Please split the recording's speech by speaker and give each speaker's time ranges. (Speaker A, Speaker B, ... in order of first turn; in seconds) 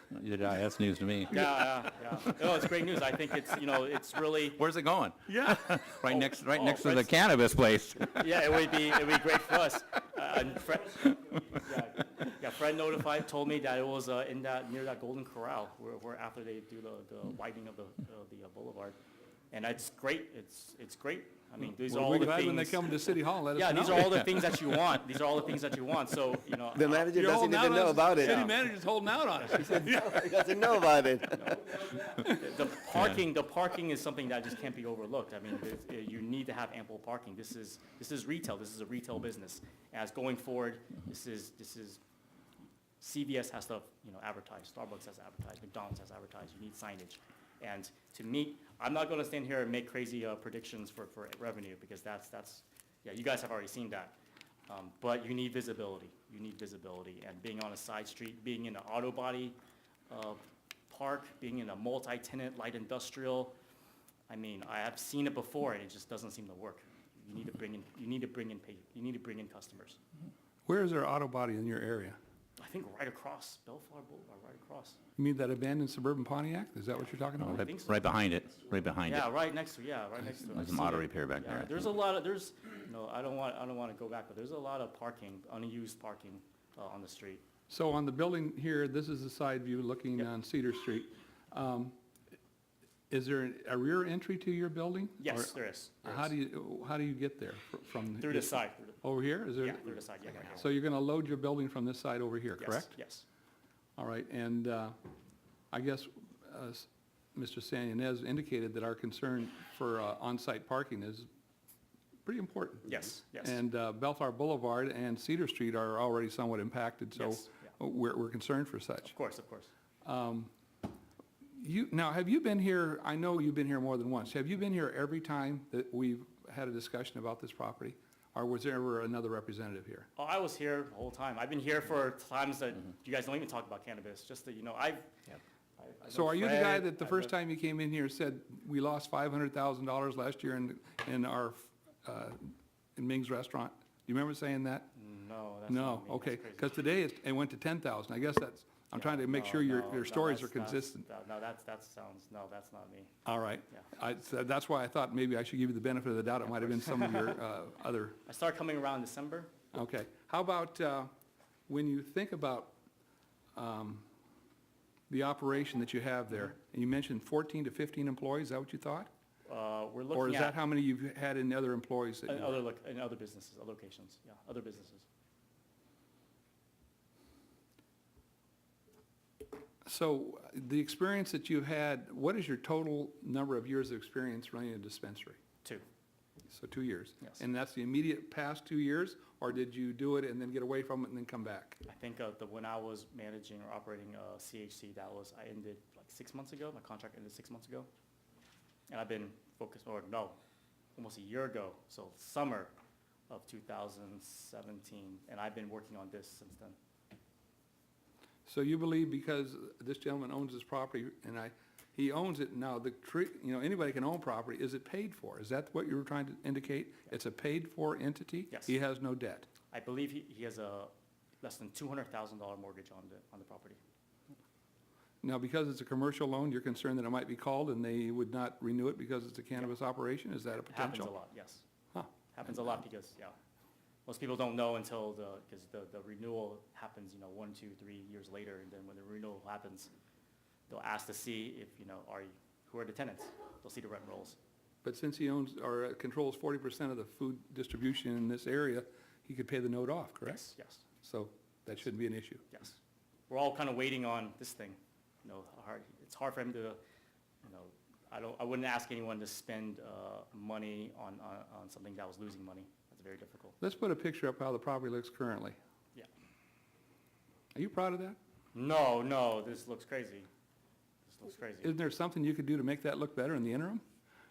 Speaker A: 0.1-1.5, 4.6-8.2, 77.4-79.3, 80.3-81.8
Speaker B: 1.3-4.6, 5.3-7.1, 8.1-19.0, 19.5-27.2, 28.1-28.6, 29.4-29.9, 31.3-42.0, 43.0-54.2, 54.7-59.6, 60.1-63.5, 64.3-70.0, 72.6-75.0, 77.3-78.1, 79.0-87.4, 95.2-96.3, 98.2-99.0, 99.5-100.7, 102.6-103.2, 112.9-113.6, 117.2-117.7, 119.0-119.7, 130.2-135.1, 135.8-137.3, 144.9-146.8, 148.9-153.1, 156.6-157.4, 158.3-159.5, 169.5-170.6, 172.3-175.1, 191.8-197.9, 198.9-200.4, 201.0-202.7, 203.3-206.8, 219.7-220.9, 221.4-223.8, 230.7-231.6, 232.3-233.4, 234.1-239.9, 240.7-244.4, 250.2-250.8, 252.5-252.8, 253.3-256.8, 257.4-263.6, 268.5-270.3, 271.1-271.8
Speaker C: 21.8-24.4, 27.1-30.4, 70.7-72.2, 75.2-77.7, 87.7-92.0, 93.1-99.8, 100.5-102.9, 104.0-105.0, 105.7-111.3, 112.2-119.2, 120.0-120.5, 121.5-130.1, 136.1-144.9, 145.7-151.1, 153.2-158.2, 159.7-161.1, 161.7-162.7, 163.6-164.1, 165.1-169.1, 170.1-172.6, 179.8-185.4, 186.5-191.8, 208.5-219.5, 225.2-231.1, 244.8-250.5, 251.0-252.4, 263.6-265.6, 267.5-268.2, 271.6-273.8
Speaker D: 26.7-28.5, 29.6-31.4